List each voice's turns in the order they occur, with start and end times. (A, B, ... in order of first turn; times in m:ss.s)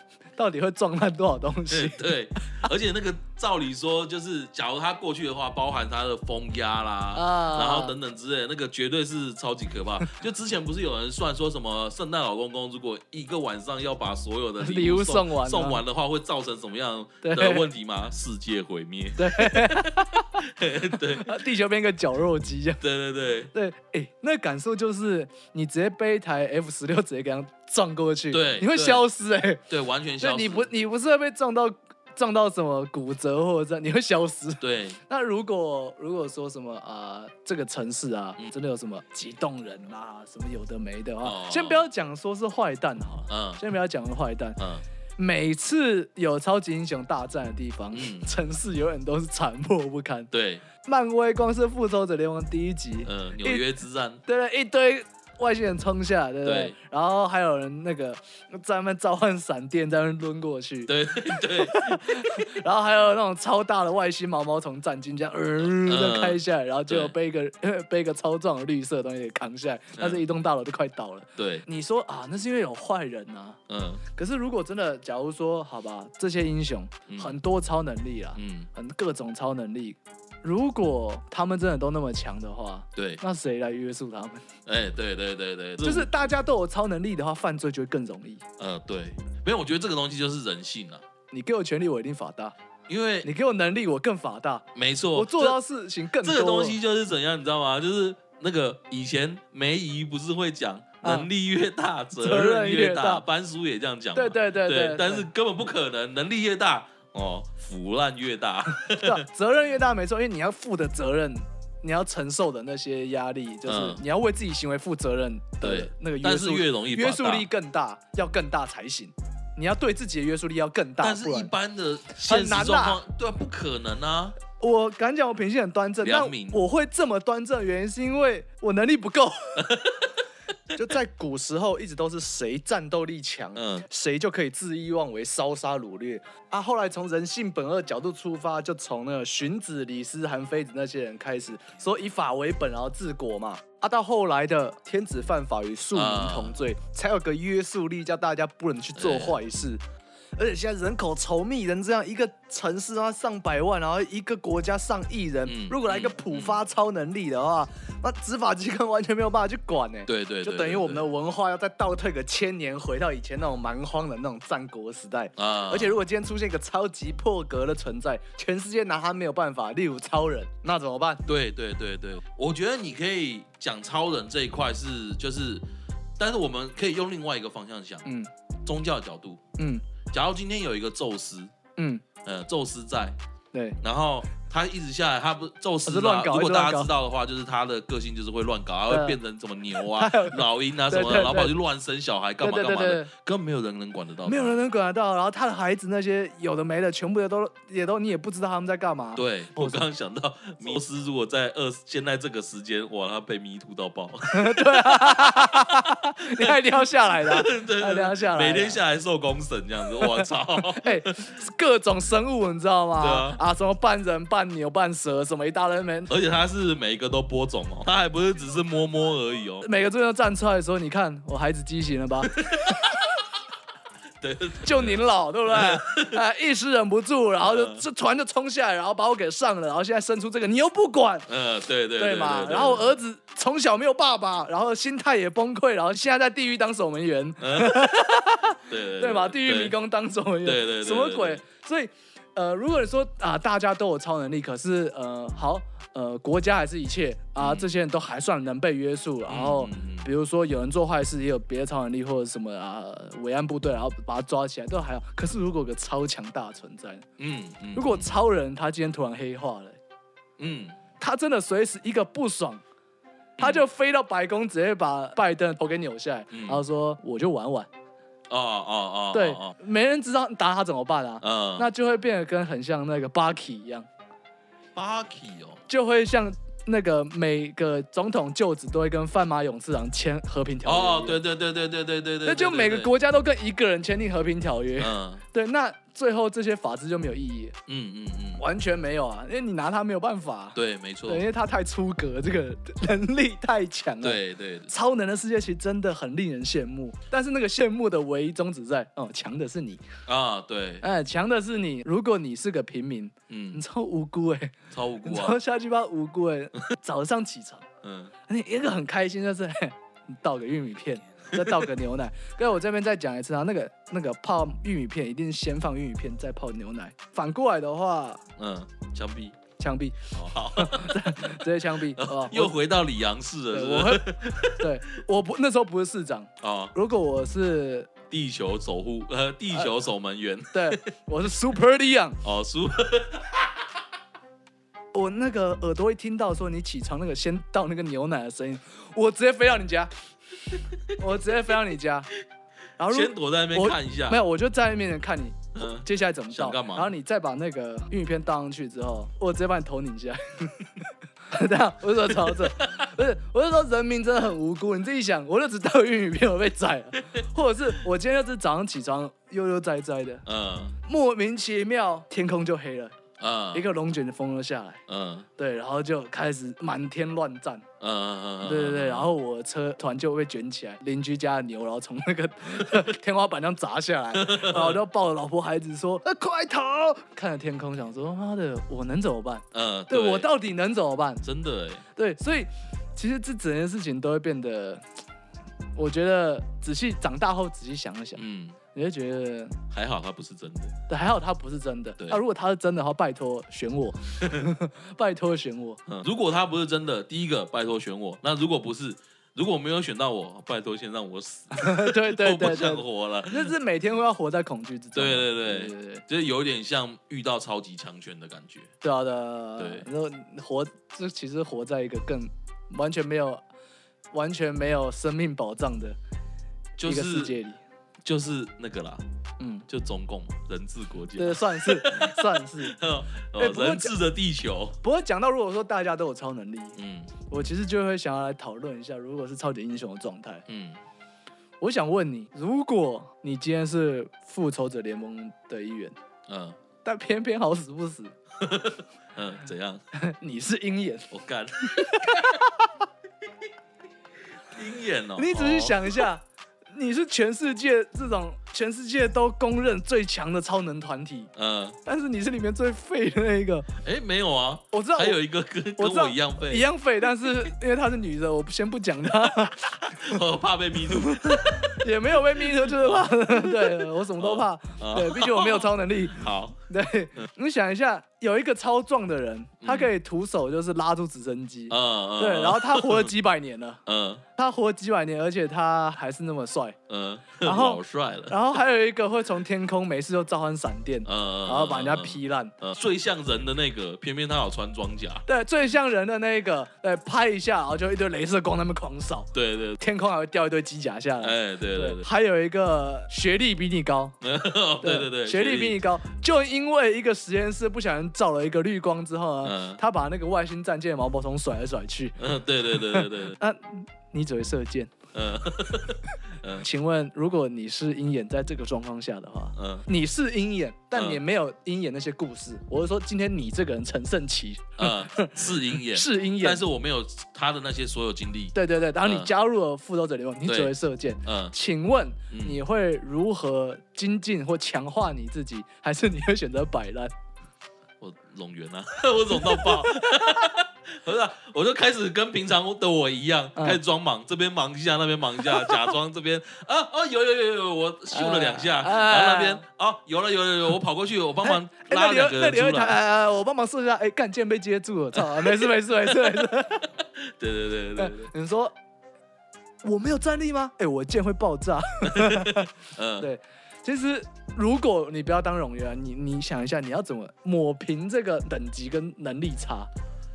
0:00.4-0:02.6 A
0:01.7-0:21.4 B
0:07.1-0:08.0 A
0:14.6-0:15.8 A
0:17.2-0:17.6 A
0:19.2-0:20.4 A
0:20.9-0:22.8 A
0:22.8-0:23.5 B
0:23.5-0:29.6 A
0:28.3-0:29.0 B
0:29.7-0:30.7 B
0:30.2-0:44.6 A
0:34.6-0:35.0 B
0:41.2-0:41.8 B
0:43.3-0:43.6 B
0:44.6-0:44.8 B
0:45.2-0:50.3 A
0:47.9-0:48.3 B
0:50.3-0:50.6 B
0:50.8-0:53.6 A
0:53.0-0:54.2 B
0:54.2-1:13.6 A
0:56.4-0:56.7 B
1:00.9-1:02.2 B
1:05.6-1:07.1 B
1:10.0-1:10.2 B
1:11.4-1:11.6 B
1:13.7-1:14.0 B
1:14.1-1:24.4 A
1:17.1-1:17.4 B
1:18.4-1:18.7 B
1:23.0-1:23.2 B
1:24.6-1:26.1 B
1:25.8-1:28.4 A
1:28.6-1:31.0 B
1:31.3-1:32.5 A
1:32.9-1:33.3 B
1:33.2-1:36.8 A
1:34.7-1:35.6 B
1:36.2-1:49.2 B
1:41.0-1:41.3 A
1:42.2-1:43.2 A
1:44.1-1:45.3 A
1:48.8-2:01.5 A
1:53.6-1:54.0 B
1:55.6-1:57.5 B
2:01.0-2:04.4 B
2:02.2-2:03.0 A
2:04.6-2:09.7 A
2:06.0-2:06.6 B
2:09.6-2:10.0 B
2:10.7-2:29.8 A
2:13.6-2:13.9 B
2:25.9-2:26.6 B
2:29.0-2:29.4 B
2:30.4-2:51.2 A
2:35.4-2:36.6 B
2:40.1-2:41.1 B
2:45.4-2:46.0 B
2:51.2-2:55.6 B
2:56.2-2:58.1 B
2:58.6-2:59.4 B
2:59.6-2:59.8 A
3:00.1-3:01.5 B
3:01.8-3:02.0 A
3:02.2-3:03.2 B
3:03.5-3:03.8 A
3:03.8-3:14.6 B
3:05.8-3:06.9 A
3:08.9-3:09.2 A
3:09.8-3:11.6 A
3:12.4-3:13.1 A
3:14.2-3:19.8 A
3:19.2-3:31.1 B
3:24.3-3:28.8 A
3:30.0-3:36.1 A
3:33.0-3:33.4 B
3:36.1-3:39.7 B
3:39.6-3:42.9 A
3:42.4-3:43.1 B
3:44.2-3:46.2 B
3:44.6-3:51.3 A
3:47.4-3:47.8 B
3:51.3-3:53.0 B
3:52.0-4:17.0 A
3:57.4-3:58.0 B
3:58.7-3:59.8 B
4:00.4-4:01.4 B
4:07.4-4:07.8 B
4:09.3-4:10.1 B
4:17.2-4:18.2 B
4:17.7-4:19.8 A
4:20.4-4:20.8 B
4:21.0-4:22.6 A
4:23.4-4:27.7 A
4:23.4-4:23.6 B
4:26.3-4:26.6 B
4:28.3-4:29.6 B
4:29.1-4:33.9 A
4:31.2-4:31.7 B
4:34.7-4:35.6 B
4:35.7-4:41.2 A
4:40.6-4:42.9 B
4:42.2-4:47.6 A
4:44.8-4:45.2 B
4:47.7-4:48.4 B
4:48.4-4:59.8 A
4:50.6-4:51.2 B
4:54.0-4:54.7 B
5:00.1-5:00.8 B
5:00.8-5:07.6 A
5:03.3-5:03.6 B
5:04.7-5:05.4 B
5:07.8-5:08.1 B
5:08.3-5:18.2 A
5:18.4-5:19.4 B
5:19.6-5:22.6 A
5:20.1-5:24.7 B
5:23.5-5:27.9 A
5:26.4-5:26.7 B
5:28.1-5:30.8 B
5:30.5-5:32.2 A
5:32.2-5:33.5 B
5:34.9-5:39.9 A
5:40.9-5:42.1 A
5:42.8-6:00.2 A
5:42.9-5:44.2 B
5:45.6-5:46.9 B
5:52.2-5:52.9 B
6:00.2-6:00.8 B
6:00.8-6:02.9 A
6:03.2-6:03.6 B
6:03.5-6:04.8 A
6:04.9-6:05.3 B
6:05.4-6:07.6 A
6:07.8-6:09.1 B
6:08.4-6:21.2 A
6:14.1-6:14.8 B
6:19.5-6:20.3 B
6:21.2-6:21.8 B
6:21.9-6:24.8 A
6:25.8-6:28.2 A
6:28.2-6:28.6 B
6:28.7-6:29.6 A
6:29.7-6:30.7 B
6:30.9-6:35.8 A
6:34.2-6:34.5 B
6:35.9-6:43.5 B
6:41.6-6:46.0 A
6:44.9-6:48.7 B
6:48.8-6:53.4 A
6:49.6-6:49.9 B
6:54.1-6:56.0 A
6:56.8-6:57.4 B
6:56.8-6:57.6 A
6:58.0-6:59.0 B
6:59.4-6:59.6 A
6:59.7-7:04.8 B
7:01.2-7:02.8 A
7:03.4-7:03.9 A
7:04.8-7:06.8 A
7:06.8-7:07.1 B
7:07.3-7:10.4 A
7:10.5-7:10.8 B
7:11.6-7:15.9 A
7:16.3-7:16.6 B
7:16.8-7:18.1 A
7:18.4-7:19.8 B
7:19.9-7:21.1 A
7:21.1-7:22.4 B
7:21.6-7:22.7 A
7:24.5-7:26.1 B
7:25.2-7:31.3 A
7:31.4-7:31.8 B
7:31.8-7:33.7 A
7:33.8-7:36.7 B
7:34.7-7:35.2 A
7:35.8-7:40.2 A
7:39.8-7:41.8 B
7:40.9-7:53.8 A
7:42.4-7:46.6 B
7:49.6-7:49.9 B
7:51.7-7:53.1 B
7:53.9-7:54.2 B
7:54.4-7:56.8 A
7:56.9-7:58.4 B
7:57.4-8:02.6 A
8:01.0-8:05.2 B
8:05.2-8:14.2 A
8:09.3-8:09.8 B
8:11.2-8:12.1 B
8:14.2-8:15.8 B
8:14.8-8:22.2 A
8:19.4-8:19.8 B
8:22.2-8:23.4 B
8:22.7-8:24.9 A
8:25.1-8:26.6 B
8:26.6-8:36.6 A
8:29.6-8:29.9 B
8:30.9-8:31.2 B
8:34.8-8:39.3 B
8:38.5-8:47.1 A
8:40.4-8:40.7 B
8:41.2-8:41.5 B
8:42.3-8:42.6 B
8:48.0-9:03.0 B
8:49.4-8:49.7 A
8:55.6-8:55.9 A
8:58.1-8:59.6 A
9:01.4-9:06.9 A
9:05.1-9:05.7 B
9:07.0-9:08.3 B
9:08.0-9:08.7 A
9:09.8-9:19.9 A
9:12.0-9:13.3 B